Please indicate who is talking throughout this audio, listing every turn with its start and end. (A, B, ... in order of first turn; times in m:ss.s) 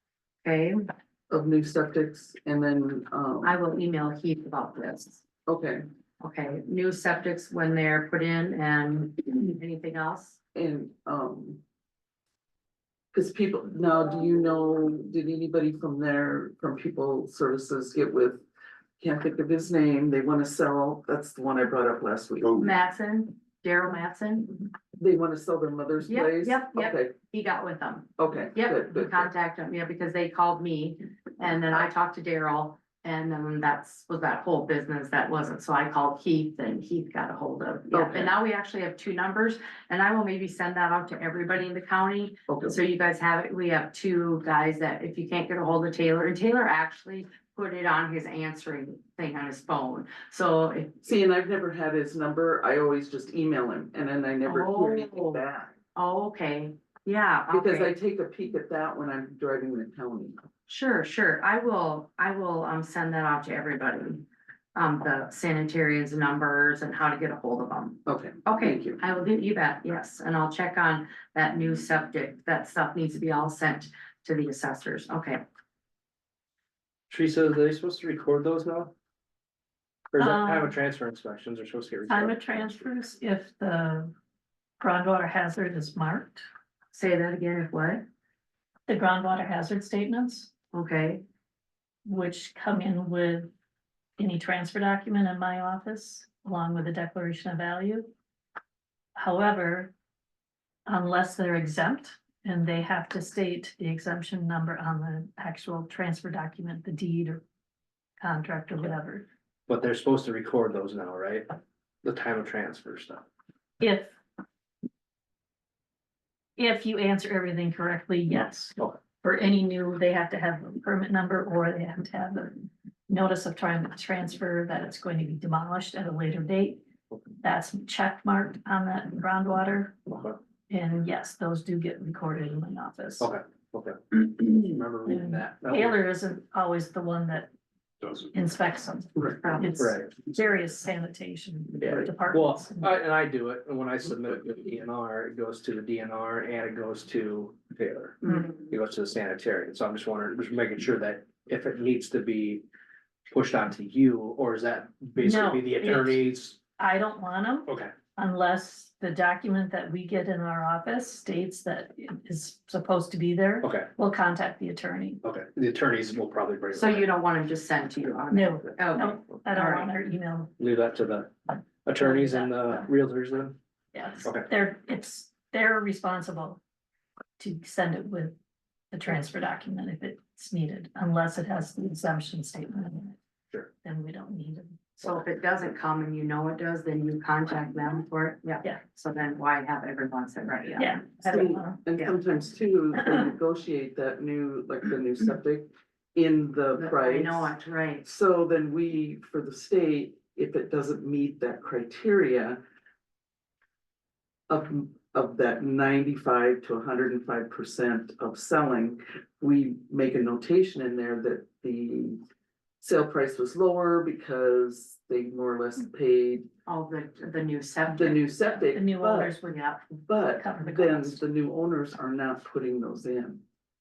0:00.4-0:00.9 A
0:01.3-0:03.6 B
0:03.4-0:05.2 A
0:05.5-0:05.8 B
0:06.2-0:10.4 A
0:10.5-0:11.6 B
0:13.1-0:18.4 B
0:19.0-0:22.6 B
0:22.6-0:24.7 A
0:25.0-0:27.1 B
0:26.0-0:51.0 A
0:28.2-0:29.3 B
0:37.9-0:38.3 B
0:42.5-0:42.8 B
0:51.0-0:55.7 B
0:54.4-0:55.4 A
0:55.9-0:57.9 A
0:57.5-1:00.4 B
1:00.7-1:15.4 A
1:08.0-1:09.0 B
1:17.1-1:18.9 C
1:20.1-1:22.3 C
1:20.2-1:20.8 D
1:22.1-1:24.1 D
1:24.8-1:26.4 D
1:26.9-1:28.0 A
1:28.9-1:30.5 D
1:30.7-1:31.2 A
1:32.0-1:33.5 D
1:34.2-1:38.1 D
1:39.1-1:39.9 D
1:40.9-1:47.4 D
1:48.2-1:49.3 D
1:49.7-1:53.2 C
1:53.8-1:54.2 D
1:56.6-2:06.8 D
2:07.4-2:10.0 D
2:10.1-2:10.4 C
2:10.7-2:13.3 D
2:13.2-2:16.0 C
2:15.0-2:17.5 D
2:18.3-2:22.9 D
2:19.4-2:19.9 A
2:19.8-2:20.2 C
2:21.8-2:32.6 C
2:28.2-2:28.6 A
2:33.3-2:36.6 C
2:35.2-2:36.2 D
2:36.8-2:45.2 D
2:37.7-2:37.9 C
2:43.6-2:43.9 C
2:45.2-2:47.1 C
2:46.7-2:49.9 A
2:48.3-2:50.5 D
2:50.6-2:53.6 C
2:52.0-2:52.6 D
2:53.9-2:56.6 D
2:57.4-2:58.4 D
2:58.9-3:03.2 D
3:03.8-3:04.9 D
3:05.0-3:11.6 A
3:10.8-3:12.1 D
3:11.3-3:22.6 B
3:12.9-3:13.2 D
3:16.8-3:18.0 A
3:24.5-3:32.2 B
3:32.8-3:36.5 B
3:36.6-3:38.6 A
3:37.9-3:39.3 B
3:38.7-3:39.7 D
3:39.5-3:39.8 A
3:39.9-3:43.4 B
3:40.4-3:41.2 D